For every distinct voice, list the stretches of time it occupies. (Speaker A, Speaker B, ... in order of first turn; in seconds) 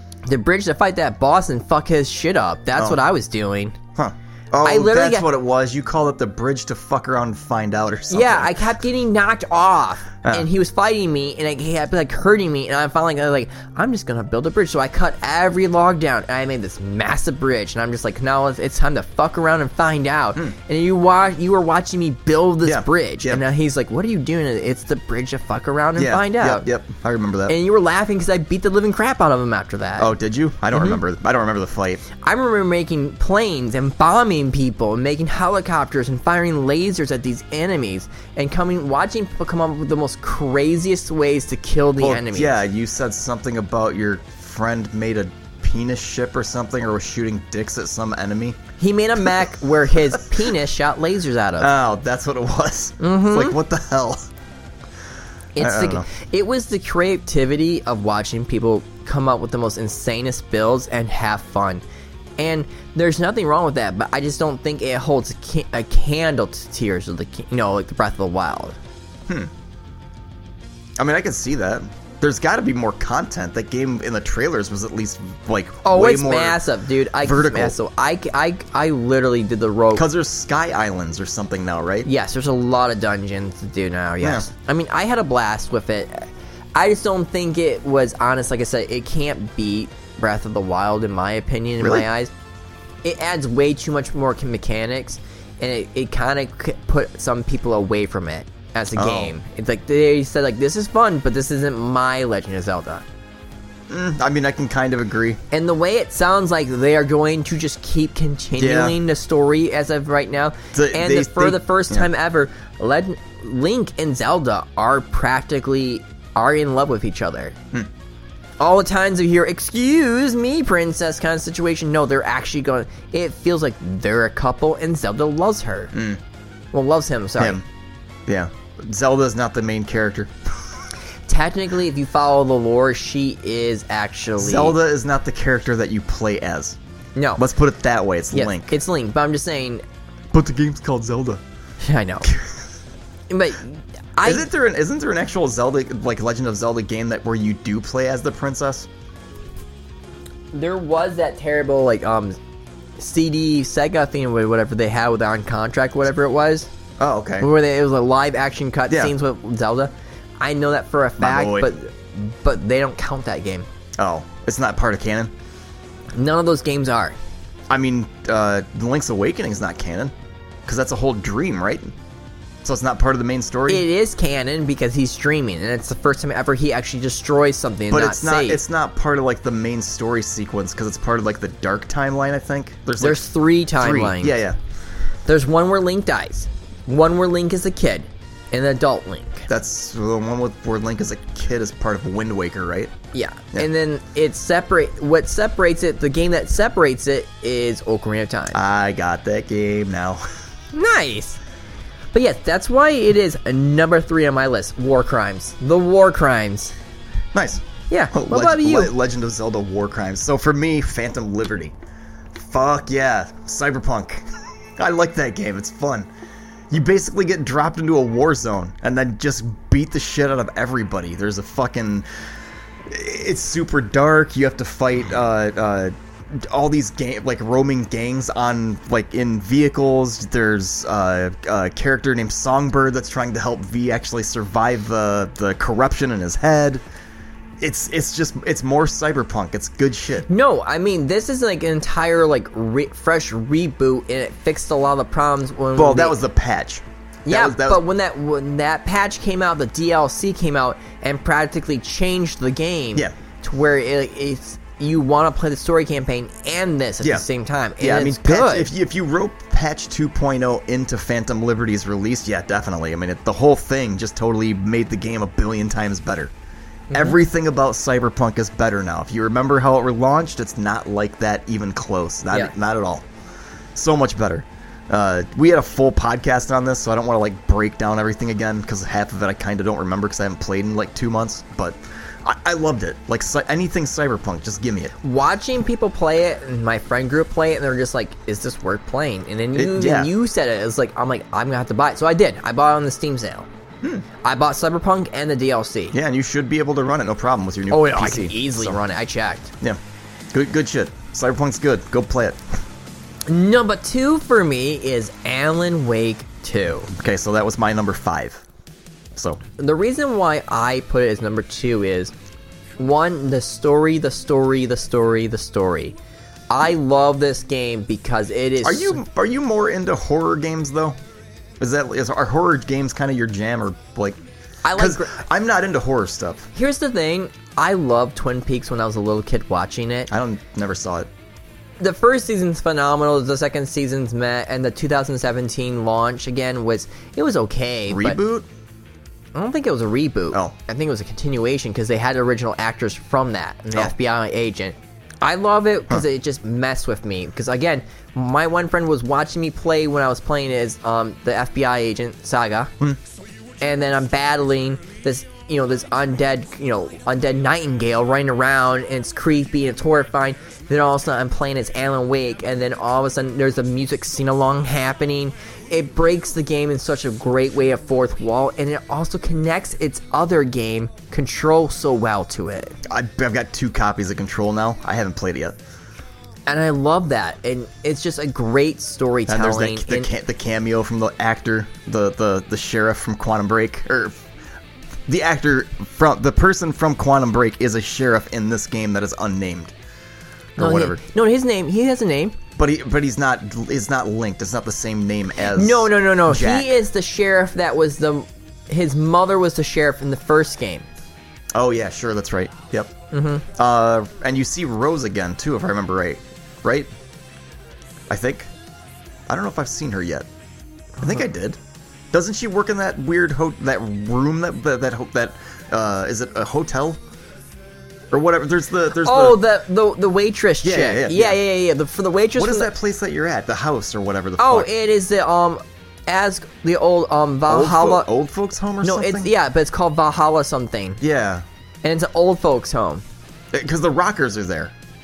Speaker A: 0.2-3.8, 4.6-5.3, 8.1-26.7, 27.5-30.1, 30.7-31.0, 32.2-42.5, 48.8-51.7, 53.0-53.6, 55.5-61.8, 62.4-68.8, 75.8-80.0, 82.0-92.3, 93.0-103.0, 105.5-117.5, 118.6-125.9, 126.7-127.6, 131.3-134.8, 137.2-137.4, 138.3-139.8, 141.8-142.3, 143.3-144.4, 150.5-152.4, 153.0-156.7, 157.4-163.7, 166.1-167.2, 173.7-178.6, 183.0-184.4, 185.3-189.5, 193.1-198.6, 200.7-201.4, 202.1-206.7, 207.9-208.9, 240.3-246.2, 247.2-258.7, 266.9-267.2, 285.0-293.5, 294.2-295.9, 297.7-299.5, 303.3-306.9, 309.6-312.1, 312.8-315.9, 316.5-319.0, 324.6-325.1, 326.5-330.1, 331.8-338.2, 339.3-352.7, 353.6-372.8, 376.5-380.1, 390.6-392.4, 395.5-400.9, 403.1-403.4, 419.0-422.7, 424.4-428.1, 428.8-431.0, 431.8-433.0
Speaker B: 2.8-3.0, 3.9-8.6, 22.6-23.4, 26.0-27.6, 30.0-32.0, 42.0-48.6, 51.6-54.3, 55.6-56.1, 71.0-76.6, 77.2-77.8, 79.9-82.1, 84.2-84.5, 91.8-92.0, 98.9-99.3, 103.9-105.4, 108.6-109.0, 110.7-112.1, 125.9-126.2, 127.4-127.6, 128.3-130.3, 134.4-136.8, 137.3-138.8, 140.3-141.4, 142.2-142.5, 144.2-148.9, 157.0-157.5, 158.9-159.1, 161.2-161.7, 164.0-165.3, 167.7-170.1, 170.7-171.9, 172.6-173.9, 177.9-184.6, 189.5-192.9, 198.5-200.2, 207.3-211.7, 212.3-216.1, 216.7-222.1, 222.9-236.8, 237.6-240.3, 245.7-247.8, 257.8-266.3, 266.9-273.1, 273.7-284.9, 289.5-290.1, 295.9-298.8, 300.3-302.6, 306.9-308.4, 309.1-309.4, 318.6-321.0, 321.6-324.2, 324.7-326.5, 330.1-331.1, 337.9-338.5, 372.9-375.6, 379.3-384.2, 385.1-389.7, 390.6-391.0, 392.6-396.7, 401.5-402.9, 403.5-406.9, 408.1-408.5, 409.3-410.3, 411.0-411.6, 412.1-417.0, 418.1-419.4, 420.6-421.4, 422.4-424.7, 427.5-429.3, 431.0-431.4, 433.5-434.7